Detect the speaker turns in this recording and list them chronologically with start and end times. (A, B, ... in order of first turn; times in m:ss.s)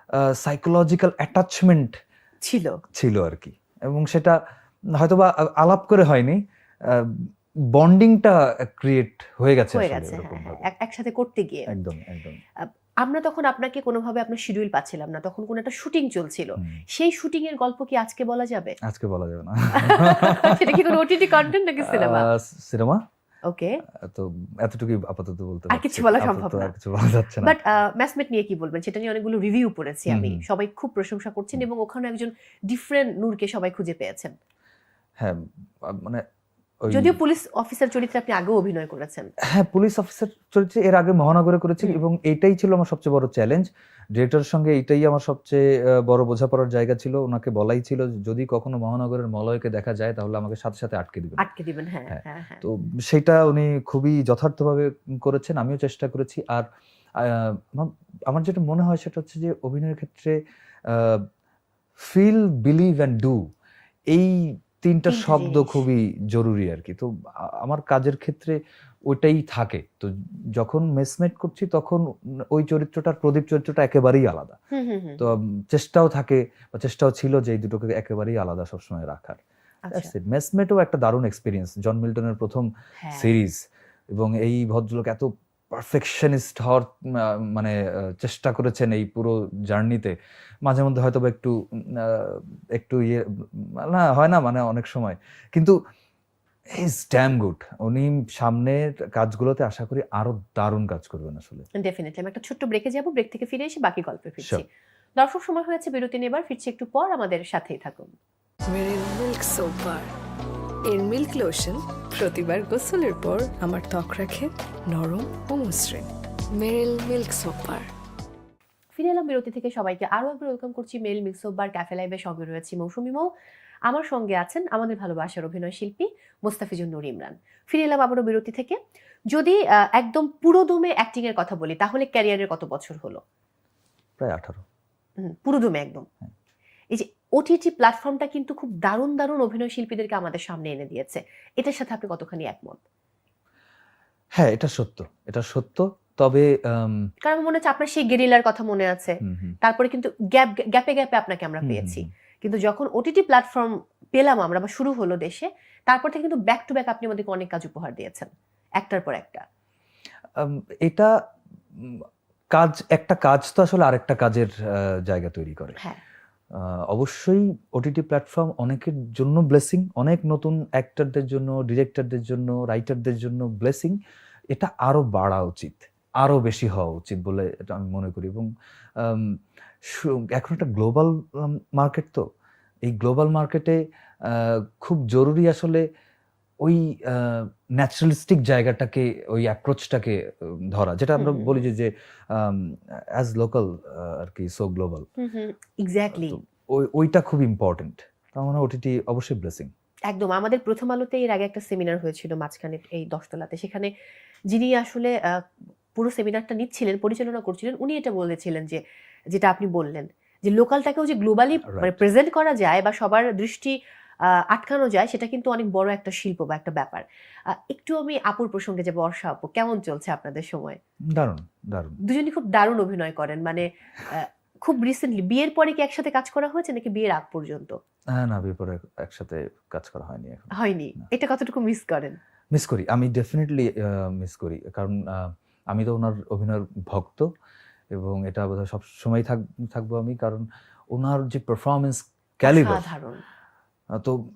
0:00.3-0:02.0 A
0:02.4-0:02.8 B
0:02.9-0:04.4 A
0:05.0-0:10.7 A
0:09.7-0:11.7 B
0:11.7-0:12.4 A
0:12.6-0:18.8 B
0:18.8-0:21.0 A
0:19.7-0:22.3 B
0:21.8-0:23.0 A
0:23.5-0:23.8 B
0:24.0-0:27.6 A
0:25.7-0:26.7 B
0:27.4-0:34.3 B
0:30.1-0:30.4 A
0:35.2-0:36.2 A
0:36.8-0:37.2 A
0:36.9-0:39.3 B
0:39.5-0:51.4 A
0:51.4-0:52.6 B
0:52.1-0:56.7 A
0:57.2-1:00.4 A
1:00.9-1:01.3 A
1:02.0-1:03.4 A
1:04.1-1:07.1 A
1:05.1-1:05.8 B
1:07.6-1:08.6 A
1:09.1-1:14.6 A
1:14.7-1:15.2 B
1:15.2-1:19.4 A
1:19.9-1:20.1 B
1:19.9-1:23.6 A
1:23.0-1:23.3 B
1:24.1-1:30.1 A
1:30.7-1:33.2 A
1:33.8-1:35.7 A
1:36.8-1:41.7 A
1:41.8-1:44.7 B
1:45.2-1:48.1 B
1:48.7-1:50.1 C
1:50.9-1:57.9 C
1:59.0-2:03.3 B
2:03.9-2:08.8 B
2:09.3-2:13.2 B
2:14.2-2:14.6 A
2:15.2-2:16.1 B
2:16.9-2:22.8 B
2:24.4-2:27.1 A
2:27.2-2:38.3 B
2:29.2-2:29.6 A
2:31.6-2:32.1 A
2:38.8-2:39.4 B
2:40.4-2:41.1 A
2:41.8-2:44.5 A
2:45.1-2:45.8 A
2:46.9-2:54.0 A
2:54.5-2:59.4 A
2:59.9-3:02.2 A
3:02.8-3:05.8 A
3:06.6-3:15.1 A
3:11.2-3:11.6 B
3:15.2-3:16.4 B
3:16.1-3:19.7 A
3:20.1-3:23.9 B
3:24.5-3:25.3 B
3:26.0-3:40.8 B
3:31.6-3:32.0 A
3:41.1-3:42.0 A
3:42.0-3:47.8 B
3:48.2-3:51.0 A
3:50.5-3:52.2 B
3:52.5-3:57.3 A
3:58.0-4:02.9 A
4:02.4-4:03.2 B